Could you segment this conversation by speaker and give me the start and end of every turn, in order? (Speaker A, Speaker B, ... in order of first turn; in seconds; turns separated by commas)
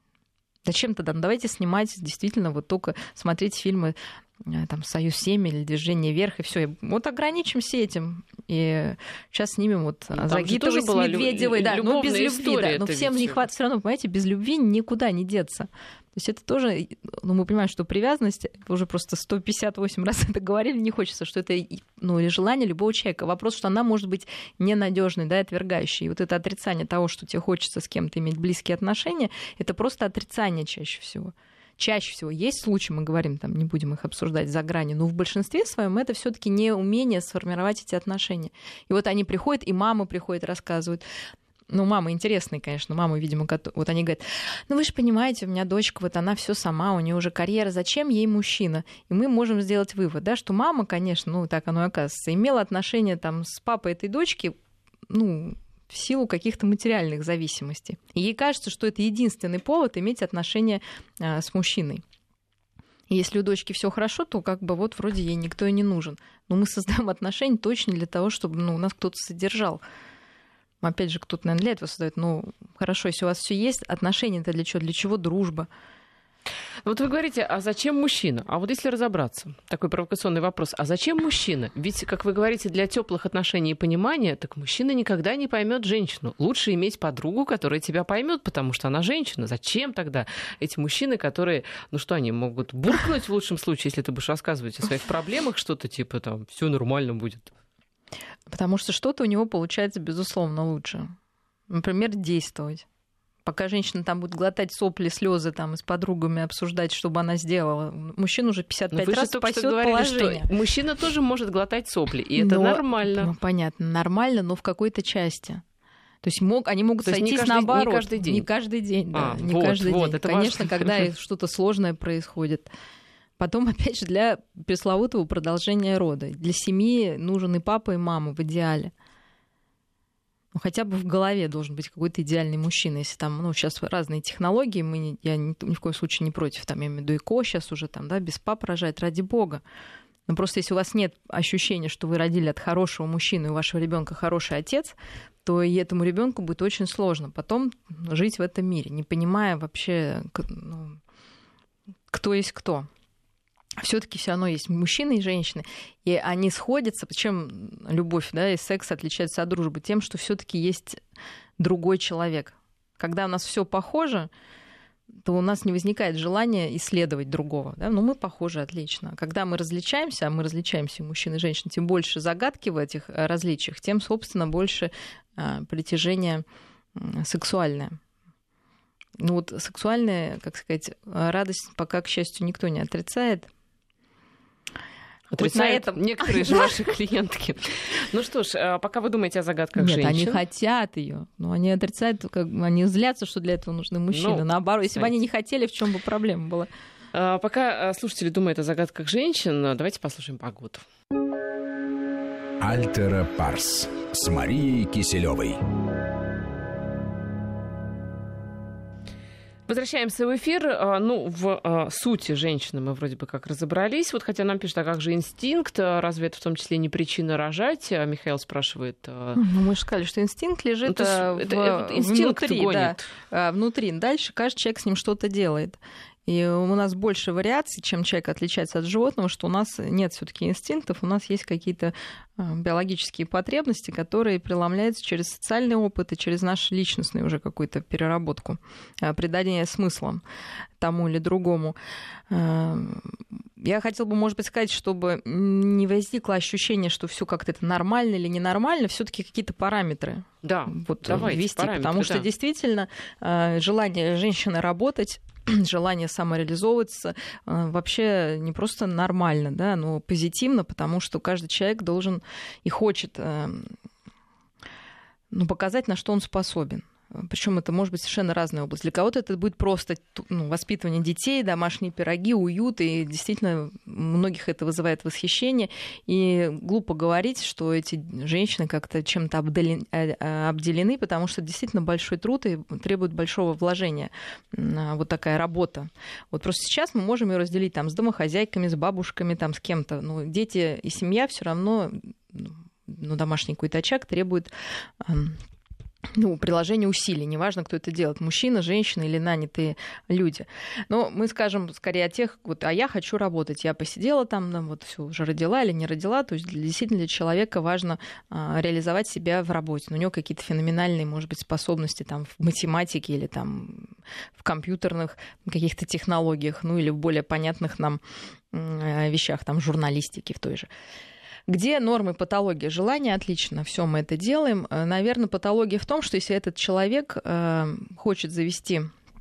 Speaker A: 0.7-41.0, Speaker B: 10.1-13.4, Speaker A: 41.7-54.5, Speaker A: 55.1-62.0, Speaker A: 63.1-69.8, Speaker A: 70.8-75.7, Speaker B: 76.8-97.5, Speaker A: 98.5-101.1, Speaker A: 101.7-102.8, Speaker A: 103.4-110.5, Speaker B: 108.9-113.3, Speaker A: 112.3-115.6, Speaker A: 116.2-122.7, Speaker B: 117.0-118.4, Speaker B: 119.1-121.1, Speaker A: 123.4-128.9, Speaker A: 130.5-139.6, Speaker A: 140.3-151.0, Speaker A: 152.1-152.9, Speaker A: 153.8-161.0, Speaker A: 161.6-164.3, Speaker A: 165.2-176.4, Speaker A: 176.9-178.0, Speaker A: 179.2-183.5, Speaker B: 185.3-190.4, Speaker A: 185.4-186.7, Speaker A: 189.8-196.7, Speaker B: 194.1-195.1, Speaker B: 197.1-200.8, Speaker C: 202.6-205.6, Speaker B: 209.7-219.4, Speaker A: 219.3-240.2, Speaker B: 220.8-223.1, Speaker A: 240.8-241.8, Speaker A: 242.3-263.7, Speaker B: 250.4-252.3, Speaker A: 265.3-295.4, Speaker A: 296.1-318.0, Speaker A: 318.5-320.7, Speaker A: 321.5-328.9